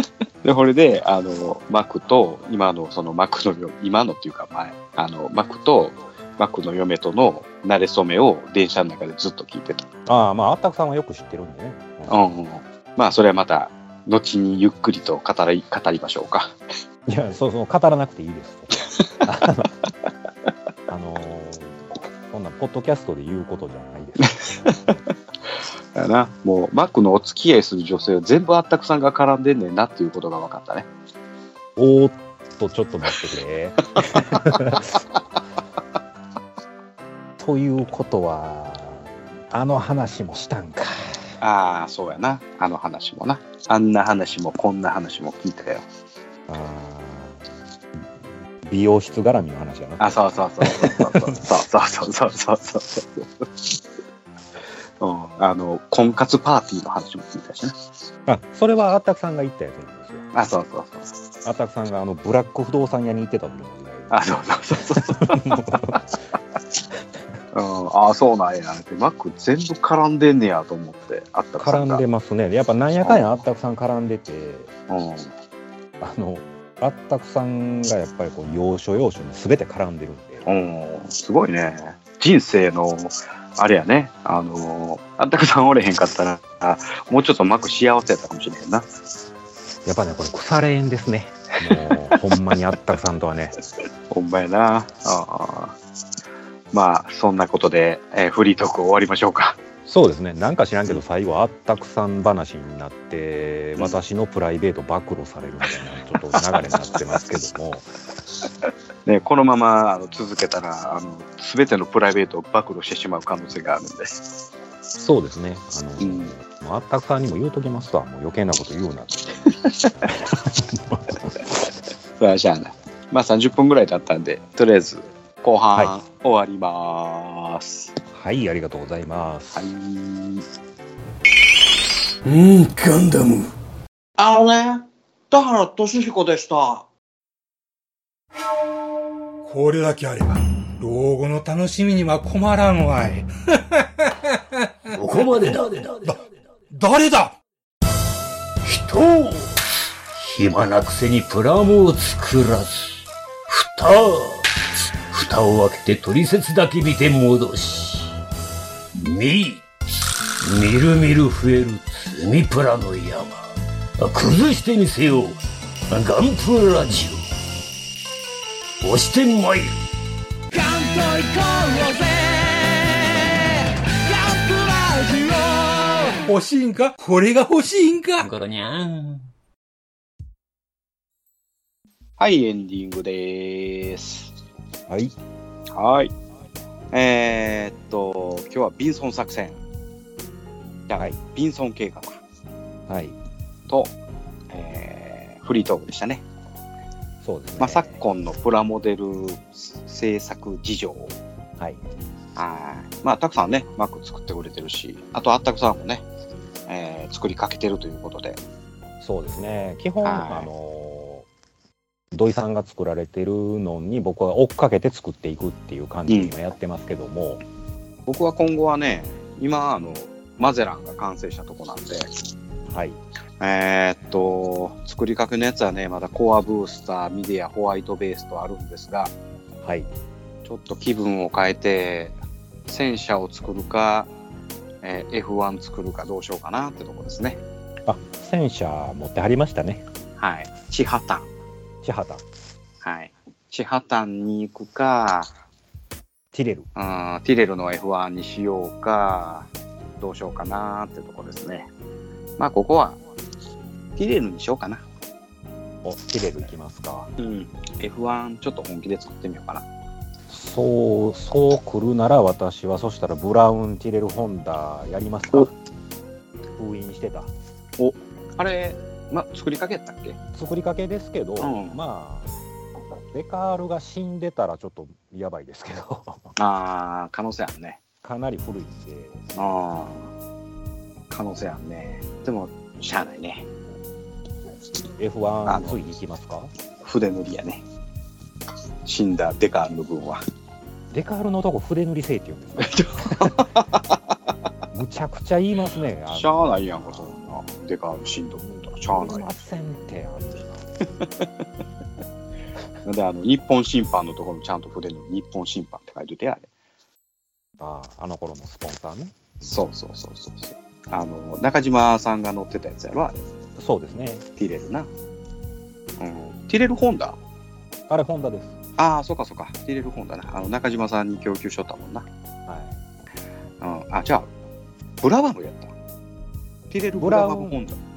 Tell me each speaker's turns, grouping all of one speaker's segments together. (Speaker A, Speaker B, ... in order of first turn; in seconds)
Speaker A: 0.4-9.9, 12.1-16.6, 24.2-25.0, 25.9-30.9, 41.4-45.9, 50.0-53.5, 55.0-57.8, 60.3-61.1, 64.1-66.0, 67.5-72.0, 74.9-75.3, 80.5-88.9, 94.1-95.8, 96.7-99.6, 109.1-114.3, 116.0-116.3, 119.6-120.1, 122.2-127.9, 129.6-130.4, 182.2-184.3, 185.8-186.1, 186.9-189.6, 190.9-192.2, 194.5-196.2, 197.6-201.2, 202.4-206.1, 206.7-208.4, 210.0-210.5, 216.1-216.3, 218.1-222.1, 223.4-229.1, 230.4-232.2, 232.7-234.1, 234.8-237.4, 240.2-241.3, 242.8-245.3, 246.8-251.7, 252.4-253.0, 254.0-254.8, 257.2-259.6, 267.8-270.2, 271.4-271.8, 276.4-277.8, 279.4-280.1, 281.1-283.5, 285.5-285.8, 286.8-287.6, 288.9-290.2, 292.6-293.9, 296.1-299.3, 302.9-306.5, 309.4-313.2, 314.4-314.9, 316.0-317.2, 318.8-322.1, 323.6-324.3, 325.0-325.7, 326.7-327.8
Speaker B: 10.1-12.3, 17.1-19.7, 20.9-24.4, 31.8-35.0, 37.4-41.3, 46.5-47.4, 48.6-51.4, 58.3-60.3, 61.5-64.3, 64.9-66.0, 71.6-74.7, 76.0-80.5, 89.8-93.6, 99.9-107.9, 115.0-119.3, 120.1-121.3, 128.1-129.7, 184.9-185.1, 192.9-193.2, 197.2-197.9, 209.0-211.3, 212.1-217.4, 222.7-223.0, 229.6-229.9, 237.9-239.8, 241.8-242.2, 246.3-246.7, 255.8-257.1, 260.3-265.5, 266.6-267.3, 270.3-272.3, 273.1-276.3, 278.0-279.5, 285.0-286.5, 290.9-293.4, 294.7-297.3, 298.9-300.7, 307.6-309.6, 313.6-314.3, 317.9-318.6, 322.5-322.8, 326.9-327.6
Speaker C: 132.2-133.5, 144.9-146.2, 148.6-149.6, 150.2-154.5, 155.1-158.1, 159.0-159.7, 160.4-167.2, 168.8-169.8, 178.2-179.3
Speaker D: 134.2-136.9
Speaker E: 139.4-144.6, 146.7-147.4, 170.5-178.3